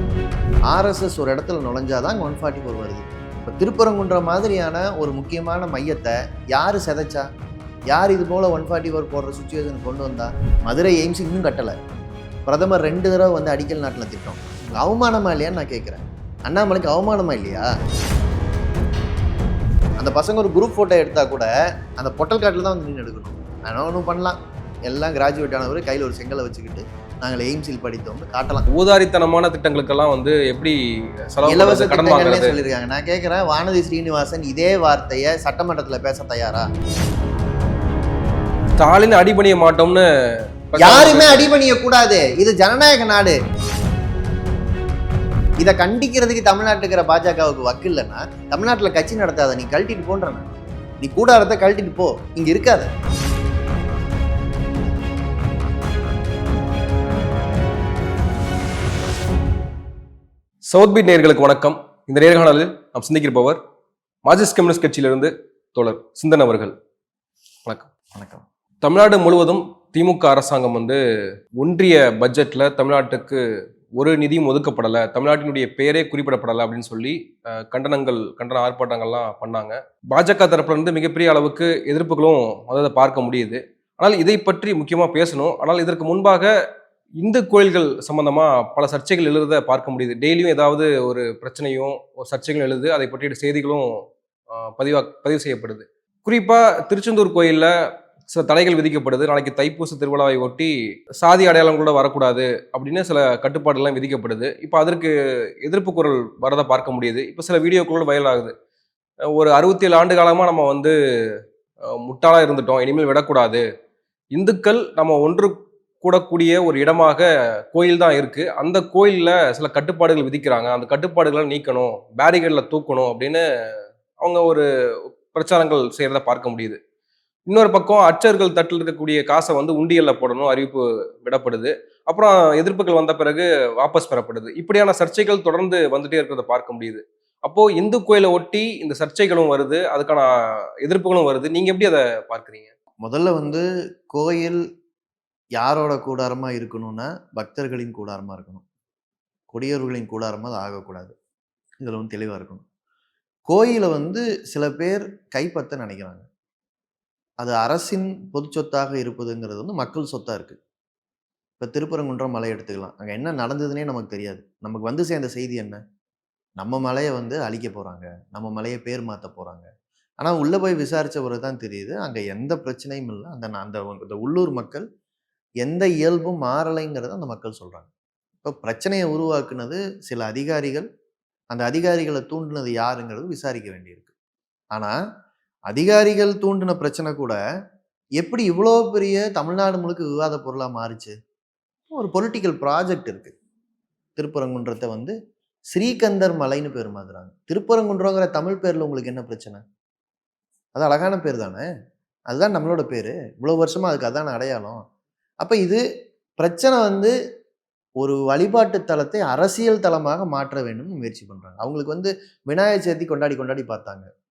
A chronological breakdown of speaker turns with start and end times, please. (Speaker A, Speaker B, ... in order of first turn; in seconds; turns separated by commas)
Speaker A: 0.7-7.3, Speaker A: 7.9-11.8, Speaker A: 12.5-17.7, Speaker A: 20.0-28.7, Speaker B: 28.7-30.8, Speaker B: 31.3-32.5, Speaker A: 31.5-36.7, Speaker B: 38.8-40.1, Speaker B: 40.7-41.5, Speaker A: 40.8-43.4, Speaker A: 45.6-50.5, Speaker A: 51.0-52.9, Speaker B: 60.7-63.6, Speaker B: 64.2-66.7, Speaker B: 67.7-67.9, Speaker A: 68.1-68.5, Speaker B: 68.8-71.0, Speaker B: 71.6-73.4, Speaker B: 74.0-86.5, Speaker B: 87.2-97.7, Speaker B: 98.3-108.5, Speaker B: 109.3-110.9, Speaker B: 112.0-113.6, Speaker B: 114.3-123.4, Speaker B: 124.2-124.7, Speaker B: 125.3-126.8, Speaker B: 127.5-140.3, Speaker B: 140.8-142.7, Speaker A: 143.0-144.6, Speaker A: 145.6-148.6, Speaker A: 149.5-151.1, Speaker A: 151.8-152.6, Speaker A: 153.5-156.2, Speaker A: 157.4-160.6, Speaker A: 161.6-165.8, Speaker A: 166.6-169.7, Speaker A: 170.2-174.8, Speaker A: 175.6-177.9, Speaker A: 178.4-180.9, Speaker A: 181.5-184.1, Speaker A: 185.7-187.4, Speaker A: 188.2-191.1, Speaker A: 191.9-193.3, Speaker A: 194.2-195.2, Speaker A: 195.7-199.6, Speaker A: 200.8-201.7, Speaker A: 202.3-204.8, Speaker A: 205.4-205.8, Speaker A: 206.4-207.1, Speaker A: 208.0-214.1